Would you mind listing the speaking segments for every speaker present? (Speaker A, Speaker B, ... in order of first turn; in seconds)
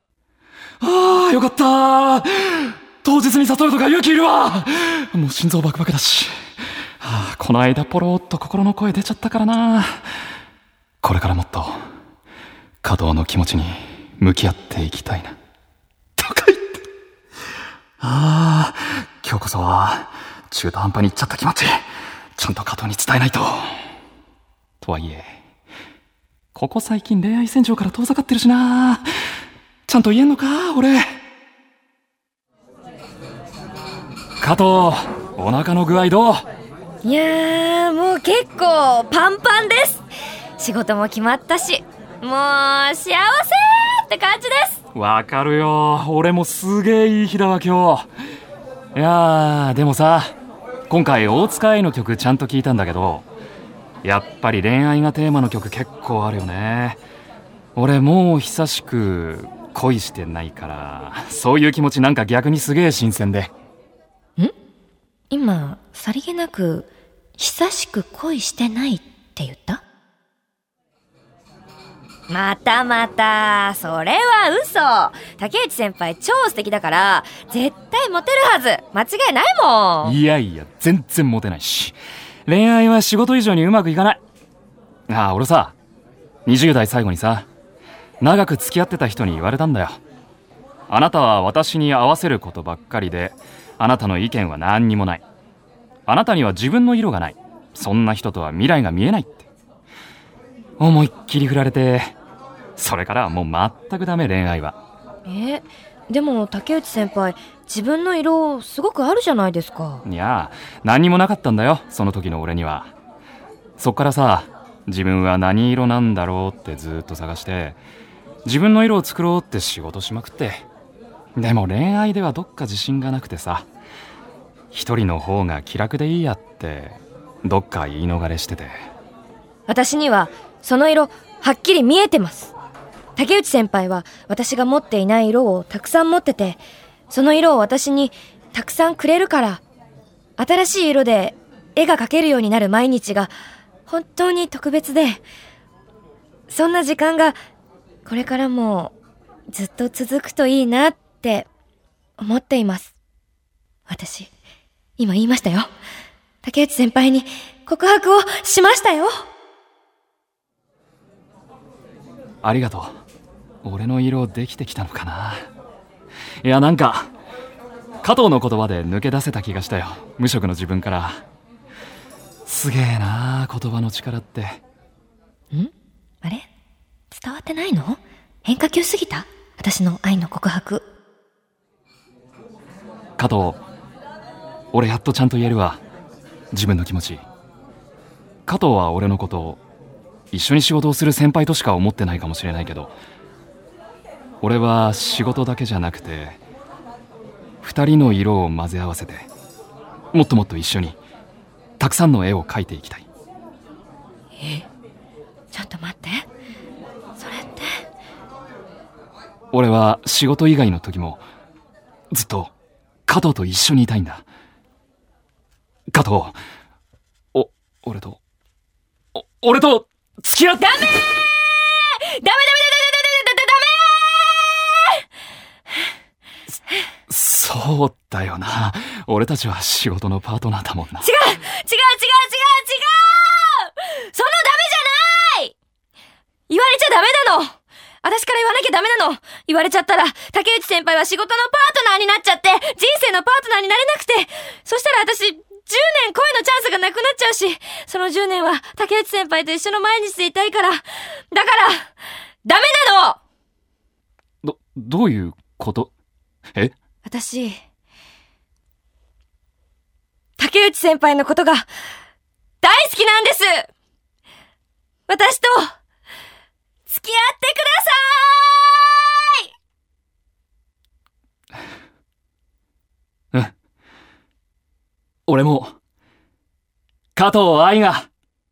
Speaker A: 0.8-6.3, 7.0-10.0, 11.0-11.8, 12.8-15.3, 16.2-16.8, 18.0-21.8, 22.4-23.7, 24.8-25.2, 26.5-29.0, 29.9-31.0, 34.4-36.4, 44.9-48.1, 48.9-50.3, 50.9-53.2, 54.0-57.0, 57.8-63.5, 80.0-82.0, 82.5-84.2, 85.1-85.7, 86.5-87.5, 88.2-90.0, 90.9-95.2, 96.1-99.5, 100.8-102.1, 102.8-104.8, 110.0-112.9, 113.8-117.8, 118.4-120.6, 121.3-123.7, 124.7-128.7, 162.4-162.9, 163.6-165.4, 166.4-167.1, 168.0-171.2, 172.5-174.6, 183.2-183.6, 184.7-185.8, 186.5-187.2, 188.5-189.6, 190.3-192.9, 194.4-196.4, 197.6-199.3, 200.1-201.0, 201.8-203.1, 209.5-211.2, 212.1-212.5, 213.1-214.2, 215.9-216.3, 217.3-218.2, 219.1-220.9, 227.1-231.1, 254.4-255.9, 275.3-275.7, 277.1-278.1
Speaker B: 37.0-40.0, 40.6-44.8, 65.3-69.8, 72.3-80.2, 105.2-110.0, 129.7-132.5, 133.2-139.6, 140.4-143.3, 143.9-145.2, 146.5-147.4, 148.0-148.9, 149.5-151.5, 152.2-152.9, 153.9-154.3, 155.0-155.7, 156.4-159.1, 176.2-176.5, 177.1-180.9, 204.4-204.7, 205.5-206.3, 207.2-207.8, 220.6-225.0, 231.0-235.5, 236.5-251.9, 252.4-253.2, 257.0-257.6, 260.4-261.7, 262.6-263.7, 265.1-265.7, 266.9-269.4